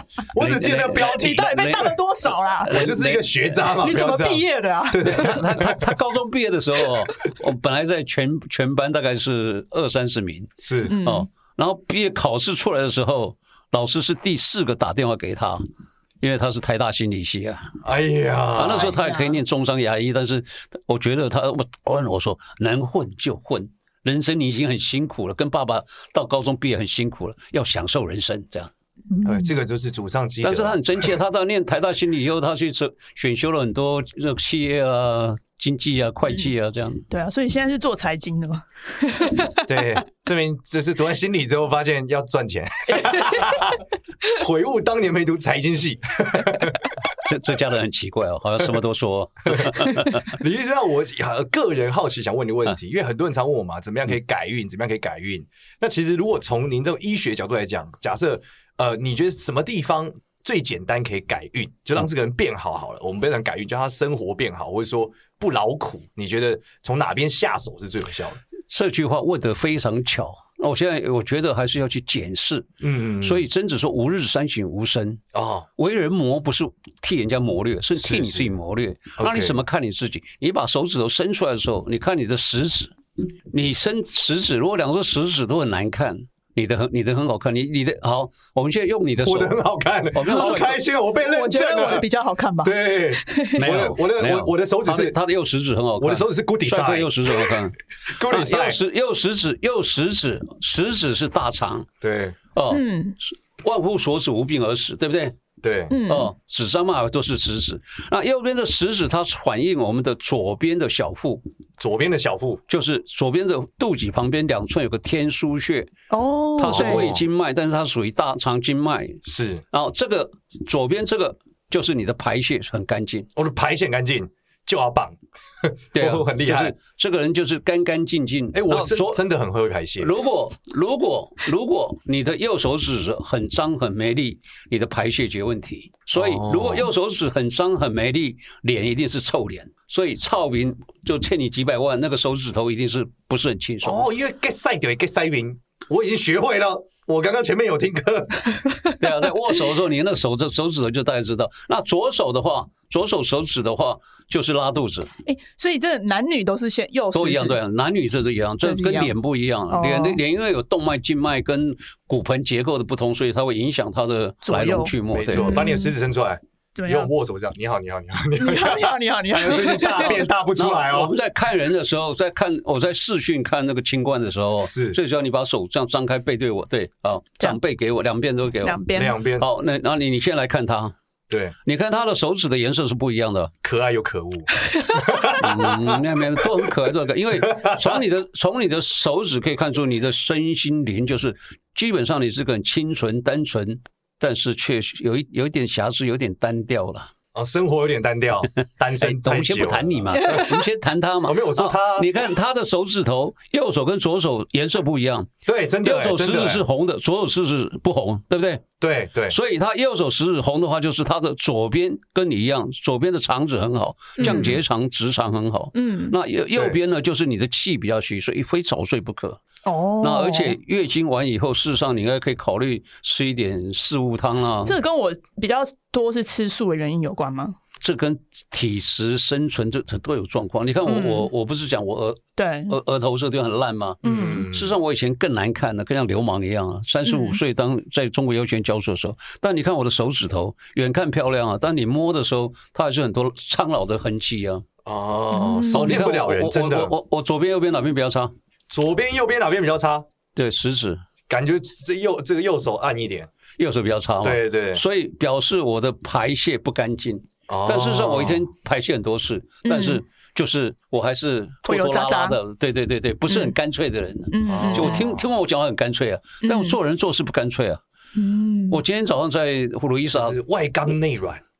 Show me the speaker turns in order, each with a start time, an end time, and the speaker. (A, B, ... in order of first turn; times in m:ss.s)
0:00.3-0:01.8 A
0:00.4-0:02.0 B
0:01.0-0:02.8 C
0:02.6-0:03.6 B
0:02.7-0:05.9 A
0:03.7-0:05.4 C
0:05.0-0:15.6 B
0:10.6-0:11.0 A
0:10.9-0:11.3 C
0:16.2-0:17.8 B
0:17.8-0:19.0 A
0:18.6-0:28.7 B
0:19.0-0:19.3 C
0:29.1-0:29.6 C
0:29.2-0:31.2 A
0:30.4-0:37.1 B
0:37.1-0:39.6 C
0:39.6-0:47.0 A
0:43.0-0:43.6 C
0:47.2-0:50.3 B
0:49.5-1:08.4 A
1:08.7-1:15.2 B
1:12.8-1:13.4 A
1:15.3-1:15.7 A
1:15.8-1:23.0 B
1:18.0-1:18.5 A
1:19.2-1:19.6 A
1:23.5-1:29.6 B
1:29.2-1:32.1 A
1:30.1-1:30.8 B
1:31.2-1:33.6 C
1:32.6-1:35.2 A
1:33.6-1:41.9 B
1:36.0-1:38.8 A
1:42.0-1:42.4 A
1:42.5-1:45.4 B
1:42.7-1:43.2 C
1:45.6-1:46.0 A
1:45.9-1:46.3 C
1:46.1-1:51.5 B
1:51.8-1:52.6 A
1:52.7-1:55.9 B
1:56.1-1:57.1 C
1:56.6-2:03.3 B
1:56.6-1:57.2 A
1:59.2-1:59.6 A
2:03.4-2:06.8 A
2:06.0-2:09.2 B
2:08.5-2:10.1 A
2:10.0-2:24.1 B
2:16.1-2:16.9 A
2:23.8-2:28.6 A
2:29.0-2:35.1 B
2:35.2-2:37.6 C
2:37.1-2:45.6 B
2:38.6-2:39.1 C
2:39.7-2:40.2 C
2:44.4-2:46.0 C
2:45.1-2:51.2 A
2:46.8-2:47.1 C
2:48.4-2:50.3 C
2:49.9-2:58.8 B
2:54.7-2:55.0 A
2:58.6-2:59.2 C
2:58.9-2:59.5 A
2:59.4-3:01.0 B
3:01.3-3:01.6 A
3:01.6-3:03.5 B
3:03.6-3:06.7 A
3:05.4-3:17.1 B
3:07.4-3:08.0 A
3:17.3-3:20.6 A
3:19.0-3:28.6 B
3:20.2-3:20.5 C
3:21.2-3:22.1 A
3:25.5-3:26.6 A
3:28.8-3:29.4 A
3:29.3-3:39.4 B
3:34.2-3:34.5 C
3:34.2-3:34.6 A
3:35.8-3:36.2 C
3:39.6-3:40.6 C
3:40.0-3:44.8 B
3:44.6-3:47.6 C
3:47.8-4:04.7 B
3:50.8-3:51.3 C
3:52.4-3:52.8 C
3:54.0-3:54.5 C
3:54.0-3:54.8 A
3:57.0-3:57.4 C
4:04.8-4:07.0 A
4:05.3-4:06.0 C
4:05.7-4:08.3 B
4:08.7-4:10.1 A
4:10.4-4:11.0 B
4:11.3-4:13.3 A
4:13.6-4:27.8 B
4:14.2-4:14.8 A
4:17.5-4:18.5 A
4:19.6-4:20.0 C
4:21.6-4:22.4 C
4:23.3-4:23.6 C
4:24.3-4:25.0 C
4:24.5-4:25.2 A
4:26.4-4:26.8 C
4:28.2-4:28.8 C
4:28.7-4:30.4 B
4:30.1-4:31.4 A